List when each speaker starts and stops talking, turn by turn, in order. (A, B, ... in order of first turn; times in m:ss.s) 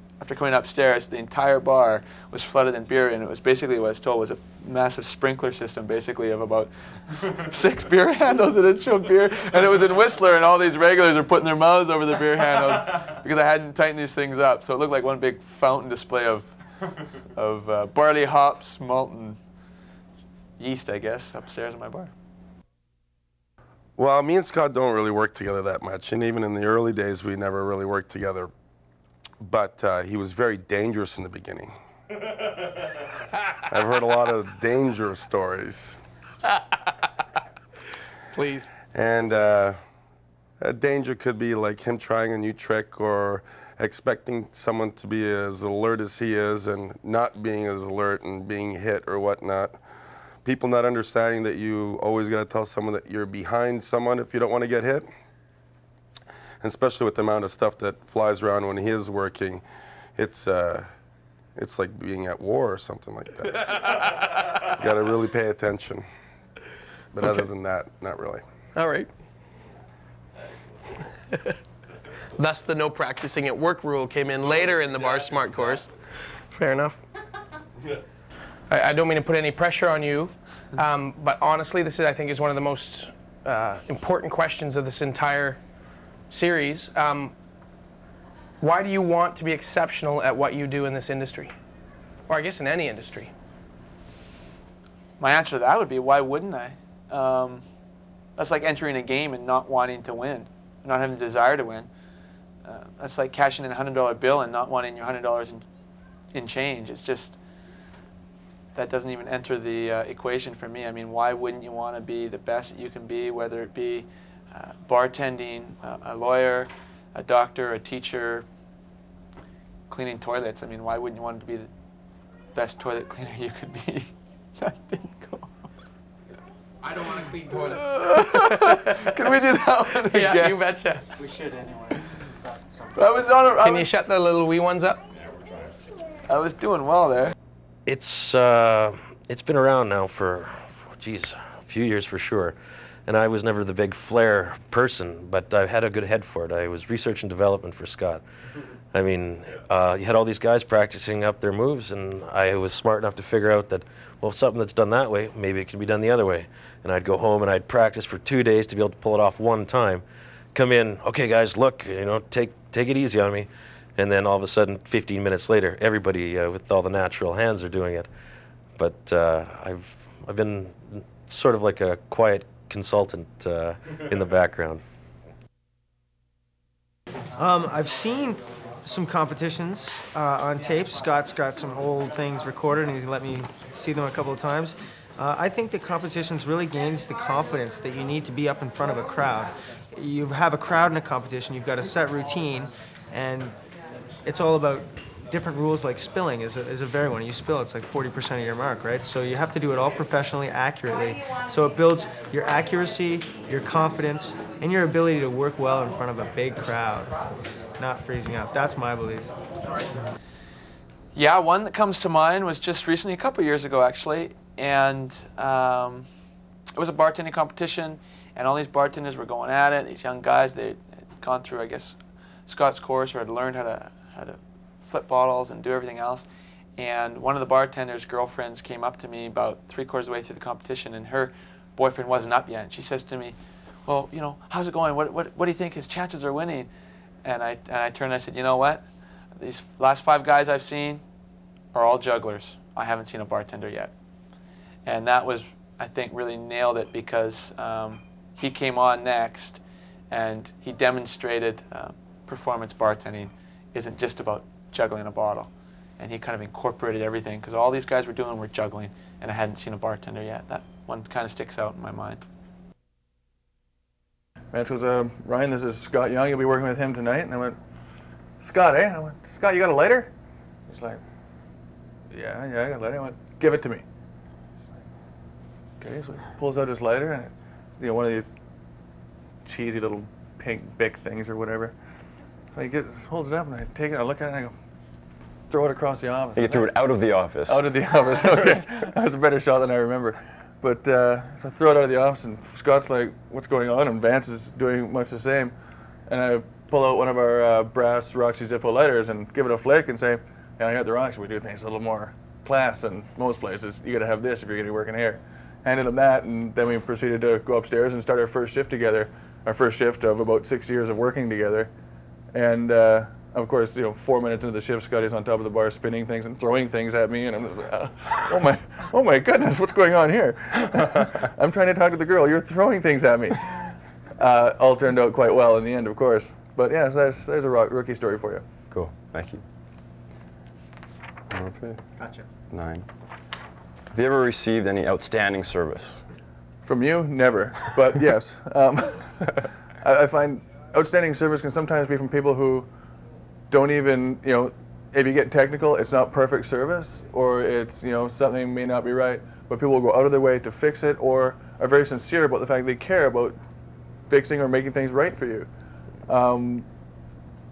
0:00.2-0:16.6 A
0:17.3-0:19.4 A
0:20.6-0:22.1 A
0:24.0-0:28.5 B
0:29.4-0:31.8 B
0:33.7-0:36.0 B
0:38.3-0:38.7 C
0:38.9-0:39.8 B
0:40.6-0:49.8 B
0:50.4-0:55.1 B
0:56.6-0:59.6 B
1:00.2-1:00.9 B
1:01.6-1:04.1 B
1:04.7-1:06.1 B
1:07.1-1:08.4 B
1:08.8-1:09.1 C
1:12.4-1:15.9 C
1:16.5-1:17.0 C
1:18.7-1:25.6 C
1:26.3-1:27.3 C
1:28.6-1:31.5 C
1:32.3-1:33.3 C
1:35.2-1:37.6 A
1:38.4-1:41.9 A
1:42.6-1:45.6 A
1:46.3-1:47.4 A
1:48.8-1:58.5 A
1:59.9-2:01.7 A
2:02.5-2:05.5 A
2:07.4-2:09.1 C
2:07.8-2:10.6 A
2:10.1-2:11.0 C
2:11.2-2:13.1 D
2:13.0-2:13.9 A
2:13.6-2:15.0 C
2:16.3-2:17.3 A
2:17.9-2:22.6 E
2:23.1-2:28.2 E
2:28.9-2:40.0 E
2:40.5-2:48.1 E
2:48.8-2:54.8 E
2:57.4-3:13.5 F
3:14.2-3:27.1 F
3:27.8-3:29.3 F
3:31.1-3:36.1 A
3:36.8-3:56.7 A
3:57.2-3:58.8 A
3:59.4-4:01.0 A
4:01.7-4:03.9 A
4:04.8-4:22.2 A
4:24.5-4:27.6 G
4:28.4-4:30.1 G
4:30.7-4:31.0 G
4:32.1-4:33.8 G
4:35.8-4:38.3 G
4:39.4-4:41.7 G
4:42.5-4:44.5 G
4:45.5-4:46.6 G
4:46.4-4:48.7 H
4:47.5-4:55.5 G
4:56.1-5:11.7 G
5:12.3-5:28.4 G
5:28.7-5:29.4 H
5:31.3-5:31.8 H
5:32.0-5:32.3 D
5:32.5-5:32.8 H
5:33.9-5:36.0 H
5:36.6-5:39.3 G
5:39.8-5:42.7 G
5:43.5-5:53.4 G
5:54.1-5:55.5 G
5:56.1-5:56.7 G